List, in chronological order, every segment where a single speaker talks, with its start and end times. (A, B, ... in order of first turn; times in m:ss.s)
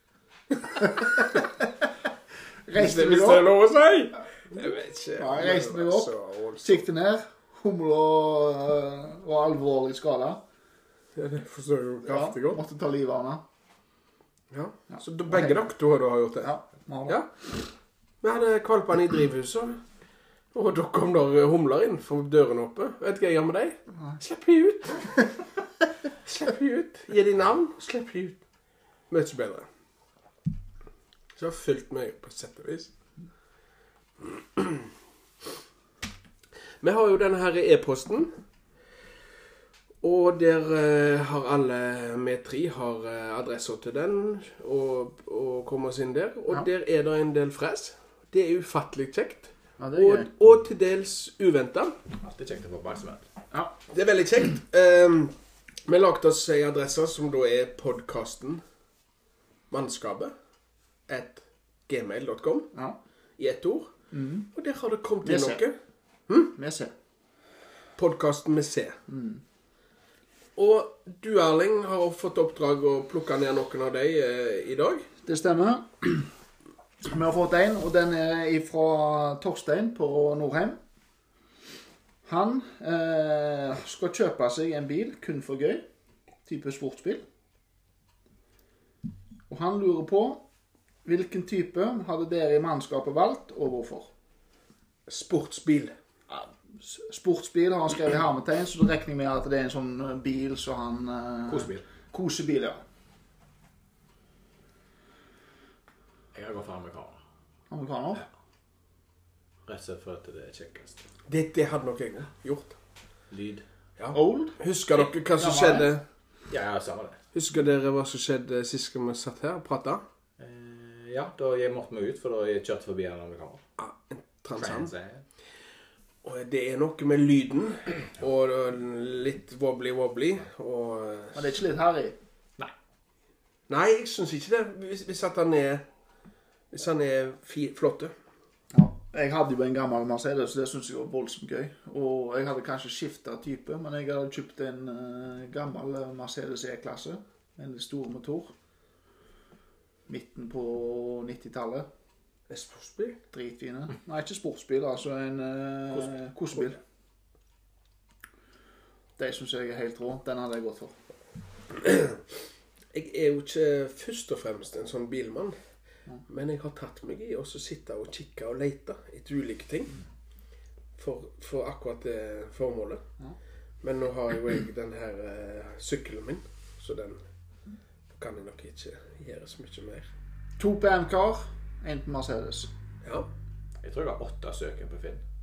0:00.7-0:01.7 A
0:02.6-0:03.5 A
0:02.7-0:06.8 B
0:05.2-0:10.4 A
0:11.2-0:12.6 B
0:12.0-0:13.4 A
0:14.5-0:16.5 B
0:14.9-0:15.6 A
0:16.4-0:17.2 A
0:17.0-0:17.3 B
0:18.2-0:19.8 B
0:20.5-0:25.3 B
0:26.2-0:28.4 B
0:29.1-0:29.7 B
0:31.4-0:32.9 B
0:34.2-0:34.9 B
0:36.8-0:38.3 B
0:40.0-0:52.0 B
0:49.8-0:50.3 A
0:52.2-0:53.2 C
0:53.9-0:55.3 B
0:55.8-0:58.6 B
0:59.7-1:00.3 B
1:01.1-1:02.7 B
1:03.4-1:03.9 B
1:04.1-1:04.5 A
1:04.5-1:05.8 B
1:05.2-1:05.6 A
1:06.3-1:06.5 B
1:06.5-1:06.9 A
1:08.0-1:09.0 B
1:09.1-1:09.4 A
1:10.6-1:15.1 B
1:15.2-1:16.3 A
1:17.0-1:20.8 A
1:22.2-1:25.8 A
1:26.4-1:27.2 A
1:29.5-1:30.4 A
1:31.0-1:34.1 A
1:35.1-1:35.9 B
1:36.3-1:42.8 A
1:41.5-1:41.8 C
1:46.3-1:47.2 C
1:47.7-1:48.2 A
1:49.6-1:51.0 C
1:51.3-1:52.8 B
1:53.3-1:53.6 C
1:54.0-1:56.0 B
1:54.1-1:54.6 A
1:55.4-1:55.9 A
1:56.5-1:57.2 C
1:57.3-2:00.0 B
2:00.4-2:03.6 C
2:03.8-2:04.9 B
2:04.6-2:05.2 C
2:06.2-2:11.4 B
2:11.3-2:12.2 A
2:13.7-2:15.8 B
2:16.7-2:18.1 B
2:18.7-2:28.5 A
2:30.1-2:31.9 A
2:32.5-2:33.2 B
2:33.3-2:36.8 A
2:39.2-2:40.9 A
2:41.7-2:42.2 B
2:42.9-2:45.6 B
2:46.3-2:49.9 B
2:51.0-2:53.0 B
2:53.8-2:57.2 B
2:58.1-3:00.1 B
3:00.6-3:02.7 A
3:03.0-3:03.3 B
3:03.8-3:05.2 C